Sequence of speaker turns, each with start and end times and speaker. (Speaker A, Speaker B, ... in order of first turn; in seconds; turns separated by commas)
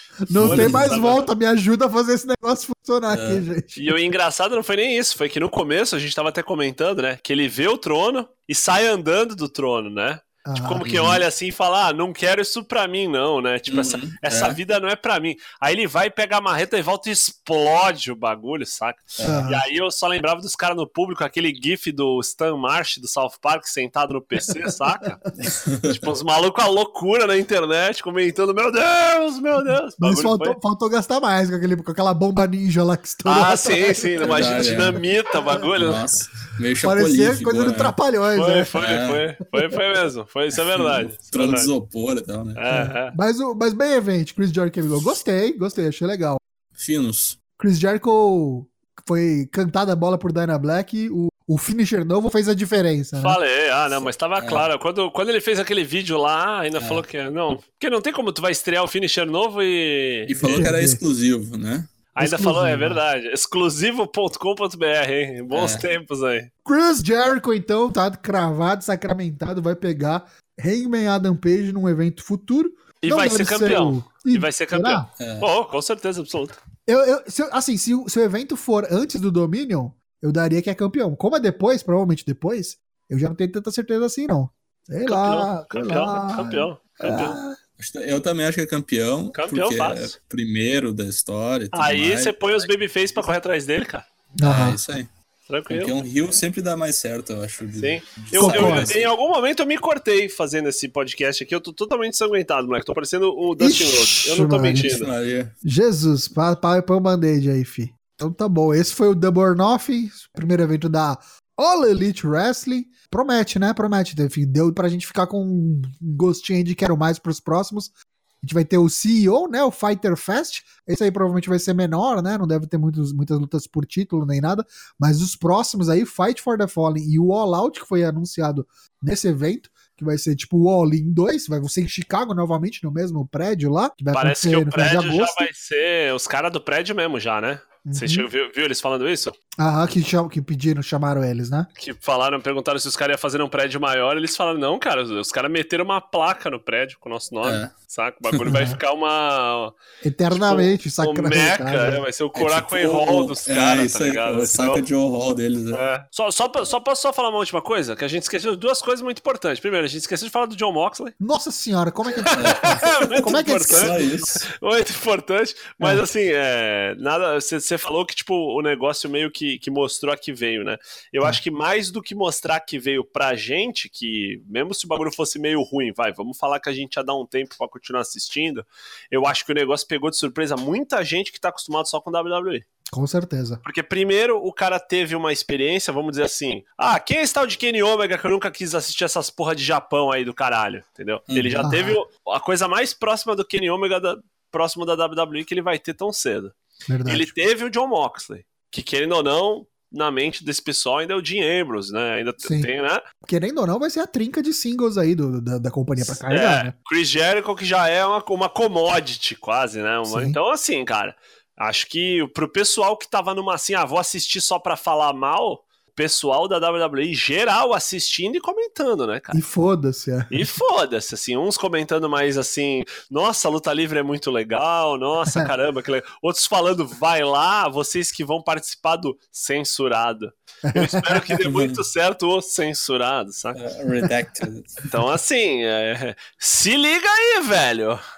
Speaker A: 0.3-4.0, Speaker B: 0.3-1.3, Speaker C: 0.4-1.0, Speaker C: 3.1-3.5, Speaker B: 3.8-25.2, Speaker A: 10.5-10.8, Speaker C: 10.8-11.2, Speaker C: 13.7-14.6, Speaker C: 19.2-19.5, Speaker A: 19.2-19.6, Speaker C: 25.4-26.1, Speaker B: 25.9-30.6, Speaker A: 30.0-34.7, Speaker B: 33.3-36.0, Speaker C: 34.2-35.0, Speaker C: 35.8-38.0, Speaker A: 36.8-38.7, Speaker B: 38.4-41.7, Speaker C: 38.8-39.2, Speaker C: 40.6-42.6, Speaker B: 42.6-43.1, Speaker A: 42.7-46.4, Speaker C: 46.8-47.4, Speaker A: 47.6-53.4, Speaker B: 53.2-60.6, Speaker C: 54.0-54.7, Speaker C: 56.8-57.1, Speaker C: 60.3-61.9, Speaker A: 60.4-61.0, Speaker B: 62.1-66.5, Speaker A: 62.2-63.0, Speaker C: 65.5-65.9, Speaker A: 66.7-75.1, Speaker B: 73.0-76.6, Speaker C: 75.2-75.5, Speaker A: 76.9-87.6, Speaker B: 85.1-87.4, Speaker C: 87.8-92.7, Speaker B: 89.3-90.1, Speaker B: 91.7-94.0, Speaker A: 94.4-94.8, Speaker C: 94.4-95.1, Speaker B: 95.5-96.0, Speaker C: 95.7-99.1, Speaker B: 97.8-105.1, Speaker A: 98.4-99.0, Speaker A: 103.6-105.0, Speaker C: 104.8-105.5, Speaker A: 105.6-117.9, Speaker A: 118.4-135.5, Speaker B: 134.1-139.4, Speaker A: 137.8-138.3, Speaker A: 139.6-141.7, Speaker B: 141.8-149.8, Speaker C: 147.4-147.7, Speaker A: 148.5-148.8, Speaker A: 150.0-152.0, Speaker B: 150.3-154.8, Speaker C: 152.3-155.8, Speaker B: 155.7-161.2, Speaker A: 161.2-162.6, Speaker B: 162.2-182.7, Speaker C: 162.3-164.5, Speaker A: 163.2-164.0, Speaker A: 182.9-183.6, Speaker B: 183.6-196.5, Speaker C: 191.3-191.7, Speaker A: 191.6-192.0, Speaker A: 196.9-197.3, Speaker B: 197.1-203.1, Speaker A: 202.4-202.7, Speaker A: 203.2-206.7, Speaker B: 206.0-219.4, Speaker A: 210.1-210.4, Speaker A: 219.3-220.5, Speaker B: 220.3-233.6, Speaker A: 230.7-231.3, Speaker C: 231.4-231.8, Speaker C: 233.5-234.9, Speaker B: 234.9-238.0